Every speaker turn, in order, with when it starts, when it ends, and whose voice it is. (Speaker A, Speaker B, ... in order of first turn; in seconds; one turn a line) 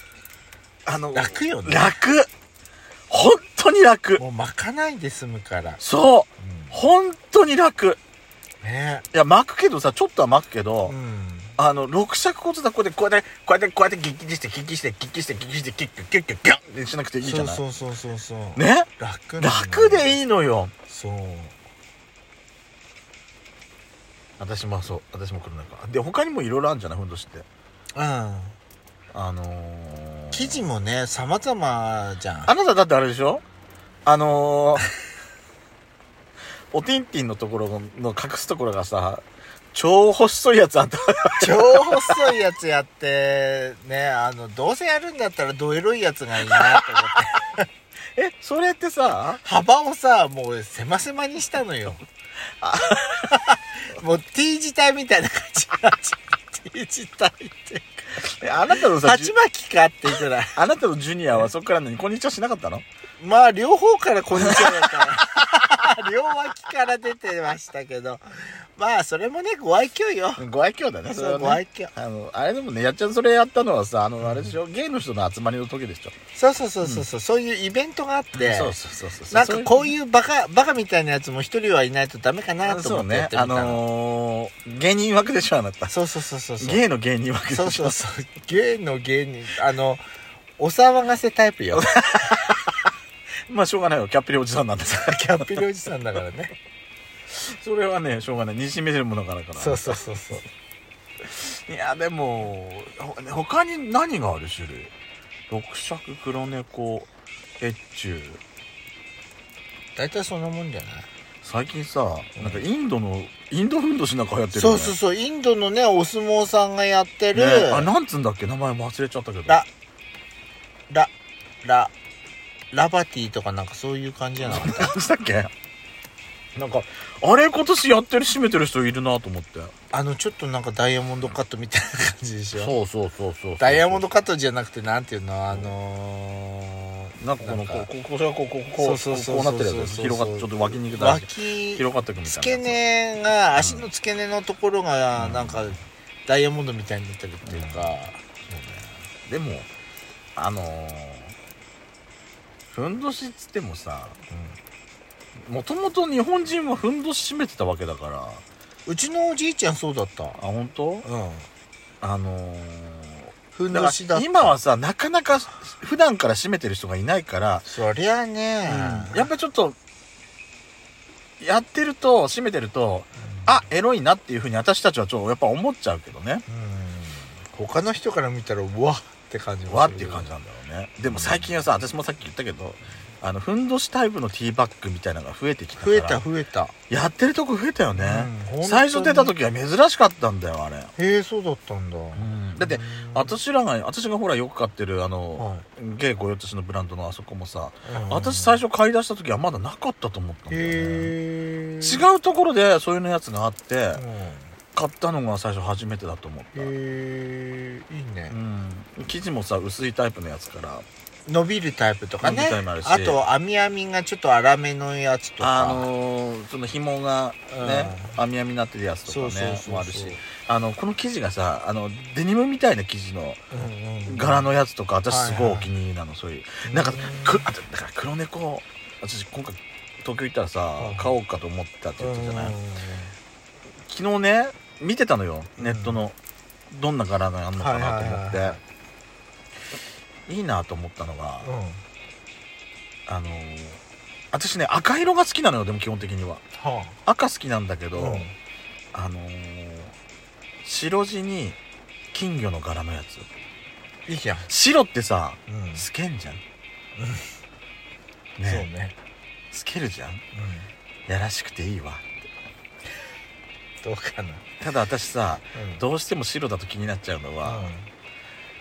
Speaker A: 0.8-2.3
Speaker B: 1.1-2.0
Speaker A: 3.1-4.2
Speaker B: 4.2-5.8
Speaker A: 5.8-8.0
Speaker B: 6.4-6.8
Speaker B: 8.6-9.1
Speaker A: 9.1-10.9
Speaker B: 10.8-11.6
Speaker A: 11.6-17.6
Speaker B: 17.2-20.2
Speaker A: 18.6-20.7
Speaker B: 20.9-21.6
Speaker A: 24.4-27.4
Speaker B: 27.9-28.6
Speaker A: 29.1-30.6
Speaker B: 30.3-32.5
Speaker A: 32.5-33.4
Speaker A: 34.0-34.9
Speaker A: 36.7-39.2
Speaker A: 39.7-42.3
Speaker B: 41.4-47.6
Speaker A: 46.5-47.2
Speaker A: 48.2-49.4
Speaker B: 49.4-52.0
Speaker A: 52.6-53.3
Speaker B: 53.1-58.0
Speaker A: 58.2-59.3
Speaker B: 59.0-60.6
Speaker A: 60.5-62.8
Speaker B: 63.2-70.4
Speaker A: 64.3-65.0
Speaker A: 70.4-76.1
Speaker B: 71.1-71.9
Speaker B: 74.2-74.5
Speaker B: 76.3-78.8
Speaker A: 78.3-79.9
Speaker B: 79.3-83.8
Speaker A: 82.6-85.9
Speaker B: 85.9-86.8
Speaker A: 86.6-88.0
Speaker B: 87.5-90.0
Speaker B: 90.6-92.2
Speaker A: 91.8-92.7
Speaker A: 93.5-95.6
Speaker B: 94.9-96.5
Speaker A: 97.3-100.0
Speaker B: 99.5-100.5
Speaker A: 101.2-104.9
Speaker A: 105.5-107.1
Speaker A: 107.6-108.4
Speaker B: 110.0-111.1
Speaker A: 111.4-115.0
Speaker B: 112.3-112.6
Speaker B: 114.5-117.9
Speaker A: 117.3-119.6
Speaker B: 121.6-121.9
Speaker B: 122.7-124.9
Speaker A: 124.4-125.5
Speaker A: 126.5-129.7
Speaker B: 129.9-132.7
Speaker A: 132.5-134.0
Speaker B: 133.6-137.9
Speaker A: 135.5-135.7
Speaker A: 137.2-142.8
Speaker B: 138.8-148.2
Speaker A: 143.5-143.9
Speaker A: 145.2-145.8
Speaker A: 147.4-148.0
Speaker A: 148.5-149.7
Speaker A: 150.3-151.3
Speaker A: 152.7-154.2
Speaker B: 154.3-154.6
Speaker A: 155.5-158.4
Speaker B: 158.8-160.4
Speaker A: 160.4-161.1
Speaker B: 161.0-161.5
Speaker A: 162.0-167.7
Speaker B: 163.5-164.6
Speaker B: 167.7-169.3
Speaker A: 168.7-169.8
Speaker A: 171.4-176.4
Speaker B: 173.2-173.6
Speaker B: 176.5-180.3
Speaker A: 179.7-186.2
Speaker B: 181.1-181.5
Speaker B: 185.8-186.7
Speaker A: 186.9-190.9
Speaker B: 187.9-189.3
Speaker B: 191.0-193.4
Speaker A: 192.1-201.1
Speaker B: 195.4-195.6
Speaker B: 197.8-198.6
Speaker B: 200.5-202.1
Speaker A: 201.8-204.0
Speaker B: 203.9-204.5
Speaker A: 204.7-206.7
Speaker B: 206.5-208.4
Speaker A: 208.3-210.8
Speaker B: 211.3-215.9
Speaker A: 212.2-213.2
Speaker A: 215.4-223.4
Speaker B: 217.5-218.2
Speaker B: 219.1-220.2
Speaker B: 223.5-224.5
Speaker A: 224.1-232.5
Speaker B: 225.1-225.7
Speaker B: 226.6-227.5
Speaker B: 230.8-231.1
Speaker B: 232.0-233.1
Speaker A: 233.9-236.1
Speaker B: 235.6-236.0
Speaker A: 236.7-238.6
Speaker B: 237.6-238.6
Speaker A: 240.3-241.5
Speaker B: 241.4-241.8
Speaker A: 243.1-243.8
Speaker A: 244.3-246.4
Speaker B: 246.6-247.0
Speaker A: 247.1-248.3
Speaker B: 247.9-248.3
Speaker A: 248.9-249.9
Speaker A: 250.6-251.6
Speaker A: 252.1-253.3
Speaker B: 254.1-254.5
Speaker A: 254.5-256.4
Speaker B: 255.5-255.8
Speaker B: 257.0-257.2
Speaker A: 258.4-258.7
Speaker B: 258.4-258.9
Speaker A: 259.5-260.2
Speaker B: 260.3-260.7
Speaker A: 261.1-262.0
Speaker B: 263.8-264.5
Speaker A: 264.6-267.7
Speaker B: 265.5-265.8
Speaker B: 267.4-267.9